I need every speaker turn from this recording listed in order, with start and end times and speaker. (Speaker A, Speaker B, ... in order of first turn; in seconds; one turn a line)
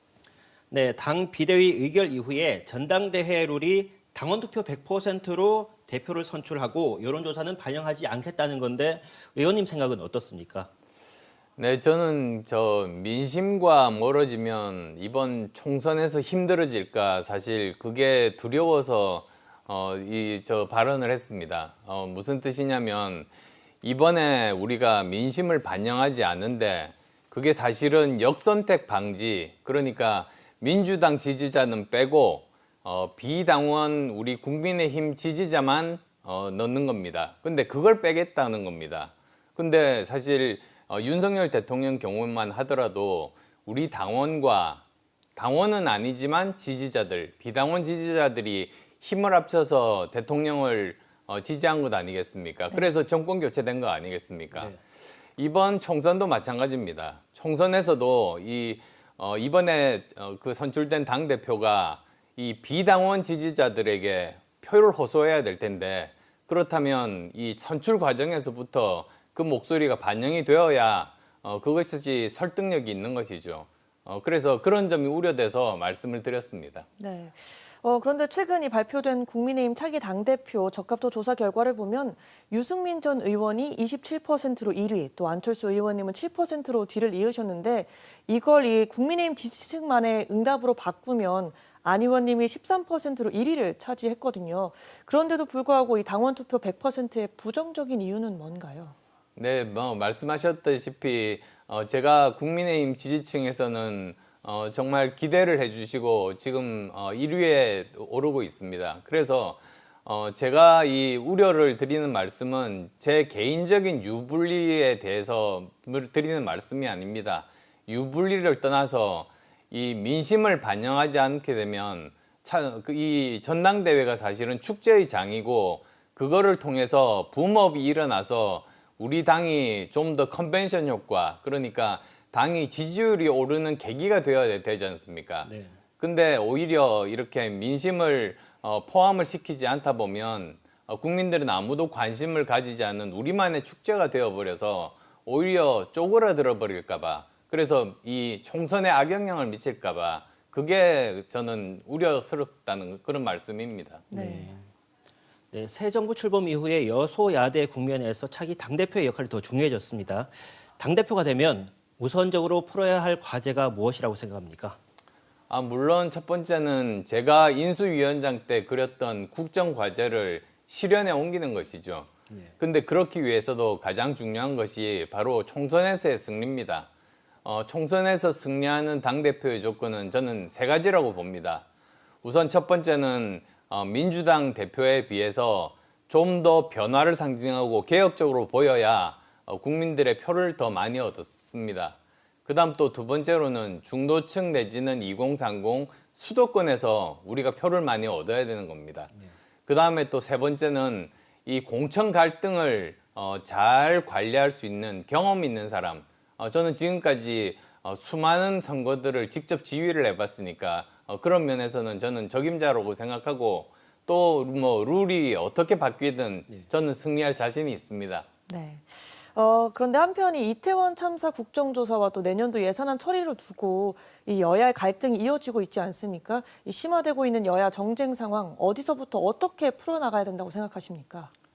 Speaker A: 0.7-10.7
Speaker B: 11.6-23.3
Speaker B: 23.8-44.8
Speaker B: 45.4-54.8
Speaker B: 55.4-76.8
Speaker C: 77.0-98.9
Speaker B: 99.3-154.1
Speaker A: 135.4-135.8
Speaker C: 154.1-154.5
Speaker A: 154.1-154.7
Speaker A: 155.5-164.8
Speaker B: 165.5-176.9
Speaker B: 177.4-181.6
Speaker B: 182.2-199.1
Speaker B: 199.7-218.2
Speaker C: 218.5-231.3